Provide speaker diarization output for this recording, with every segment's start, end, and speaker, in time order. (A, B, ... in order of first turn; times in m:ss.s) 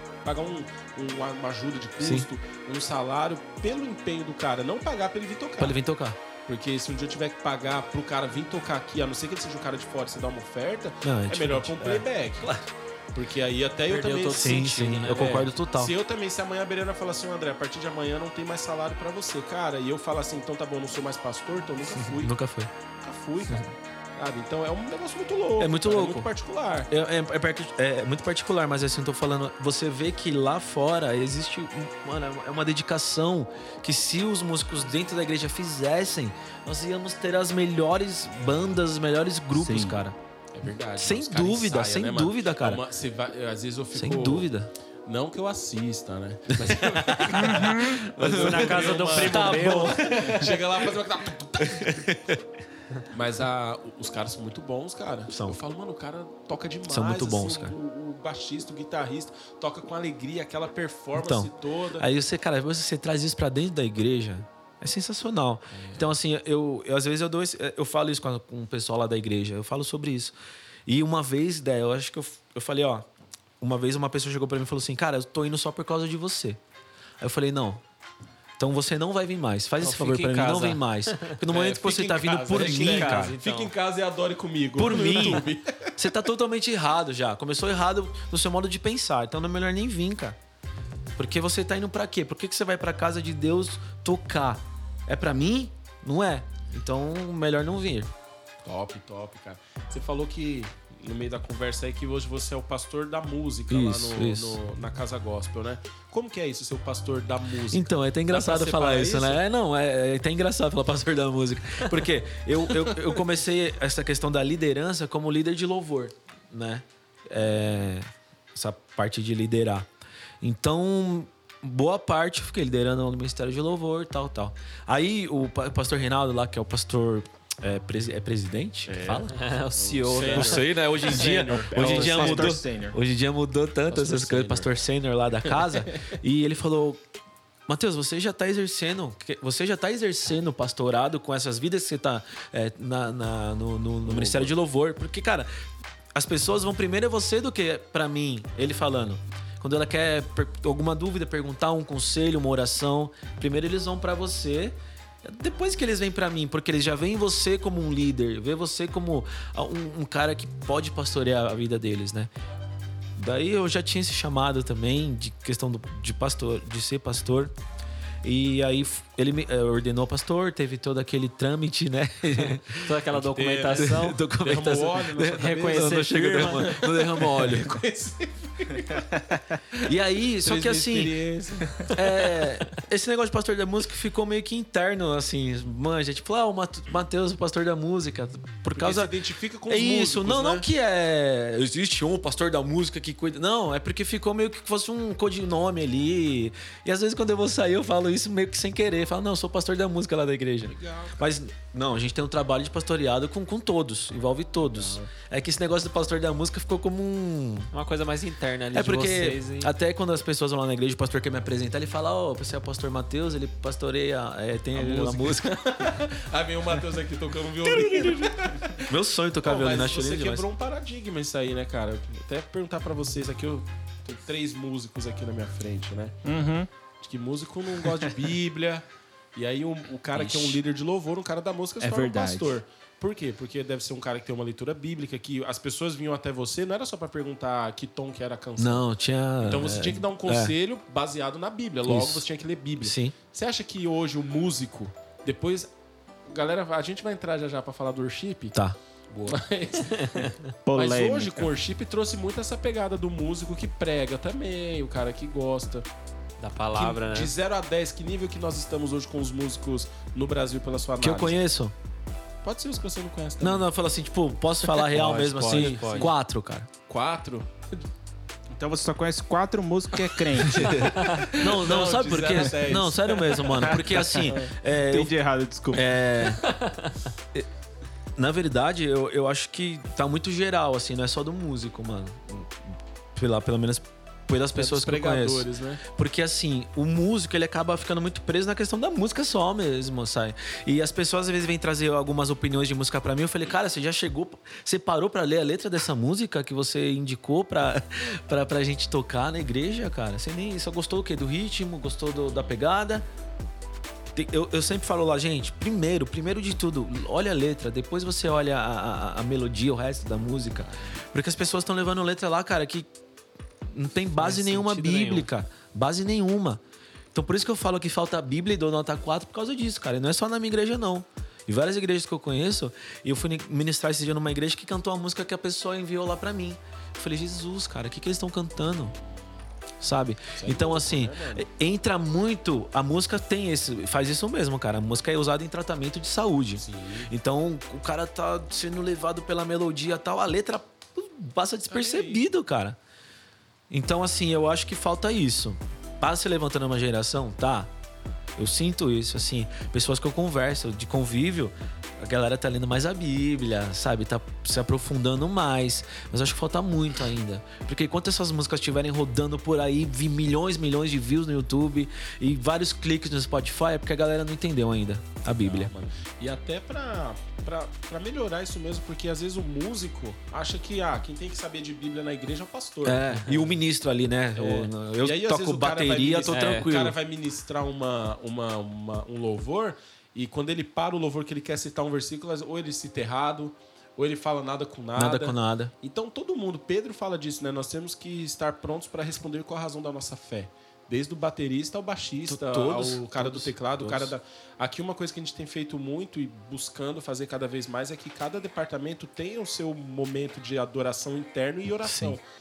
0:00.2-0:05.8 A
0:02.0-0:02.3 B
0:05.6-0:06.2 B
0:06.5-0:12.5 A
0:11.0-0:12.7 B
0:13.1-0:22.4 A
0:13.9-0:15.5 C
0:14.4-0:15.9 B
0:21.9-0:22.7 B
0:23.0-0:26.9 A
0:25.6-0:26.3 B
0:26.9-0:40.2 B
0:39.6-0:40.0 D
0:40.5-0:44.5 A
0:41.0-0:42.8 B
0:43.9-0:44.7 B
0:45.1-0:52.1 A
0:46.5-0:50.7 B
0:47.3-0:48.1 D
0:48.2-0:50.1 C
0:51.6-0:52.4 B
0:53.1-1:02.1 A
0:55.3-0:55.6 B
0:56.9-0:57.8 B
1:01.2-1:10.3 B
1:05.7-1:06.1 A
1:10.9-1:13.0 B
1:13.6-1:16.6 B
1:17.2-1:17.8 B
1:18.6-1:23.3 B
1:19.8-1:21.3 C
1:21.5-1:26.0 A
1:22.5-1:23.7 C
1:24.8-1:30.4 B
1:31.2-1:38.1 B
1:38.6-1:49.4 A
1:43.7-1:44.6 B
1:47.7-1:59.9 B
2:00.4-2:09.4 B
2:08.9-2:12.6 A
2:09.1-2:10.9 C
2:10.2-2:17.0 B
2:11.4-2:13.0 D
2:13.9-2:14.7 A
2:17.7-2:25.5 B
2:24.0-2:24.5 A
2:26.2-2:42.3 B
2:43.2-2:47.5 B
2:48.2-2:53.0 B
2:52.7-2:54.2 C
2:53.1-3:01.9 A
2:53.8-2:57.8 B
2:55.3-2:56.7 C
2:59.8-3:01.2 B
3:01.9-3:09.1 B
3:08.8-3:10.7 A
3:09.7-3:27.7 B
3:20.7-3:21.3 A
3:24.6-3:25.1 A
3:27.7-3:29.7 C
3:28.7-3:35.7 B
3:34.7-3:46.2 A
3:37.7-3:40.5 B
3:46.2-3:46.7 D
3:47.0-3:48.8 A
3:49.4-3:58.8 A
3:50.2-3:50.6 C
3:51.8-3:52.5 D
3:58.6-4:00.6 B
3:59.4-4:05.7 A
4:01.8-4:02.3 B
4:02.8-4:03.2 B
4:06.3-4:08.6 A
4:09.1-4:15.9 A
4:09.8-4:10.5 C
4:10.7-4:11.5 D
4:16.4-4:17.3 C
4:16.7-4:21.4 A
4:21.0-4:21.8 B
4:22.4-4:23.7 A
4:23.4-4:26.7 B
4:24.7-4:26.1 C
4:25.5-4:26.1 A
4:26.9-4:27.9 A
4:28.6-4:30.9 D
4:30.0-4:34.5 A
4:30.4-4:35.1 B
4:34.9-4:35.9 D
4:35.7-4:36.4 B
4:36.4-4:37.0 C
4:38.2-4:42.5 B
4:43.2-5:03.0 B
4:44.6-4:45.8 A
5:04.1-5:12.9 B
5:13.7-5:16.6 B
5:14.2-5:15.3 C
5:17.1-5:29.0 B
5:29.8-5:42.8 B
5:30.4-5:31.5 A
5:36.6-5:37.1 A
5:41.7-5:42.2 A
5:43.7-5:47.7 B
5:48.4-6:05.7 B
6:05.3-6:13.2 A
6:12.8-6:17.0 B
6:13.1-6:13.5 C
6:14.4-6:42.2 A
6:16.3-6:16.8 C
6:25.0-6:25.7 B
6:32.3-6:34.1 B
6:41.8-6:42.2 B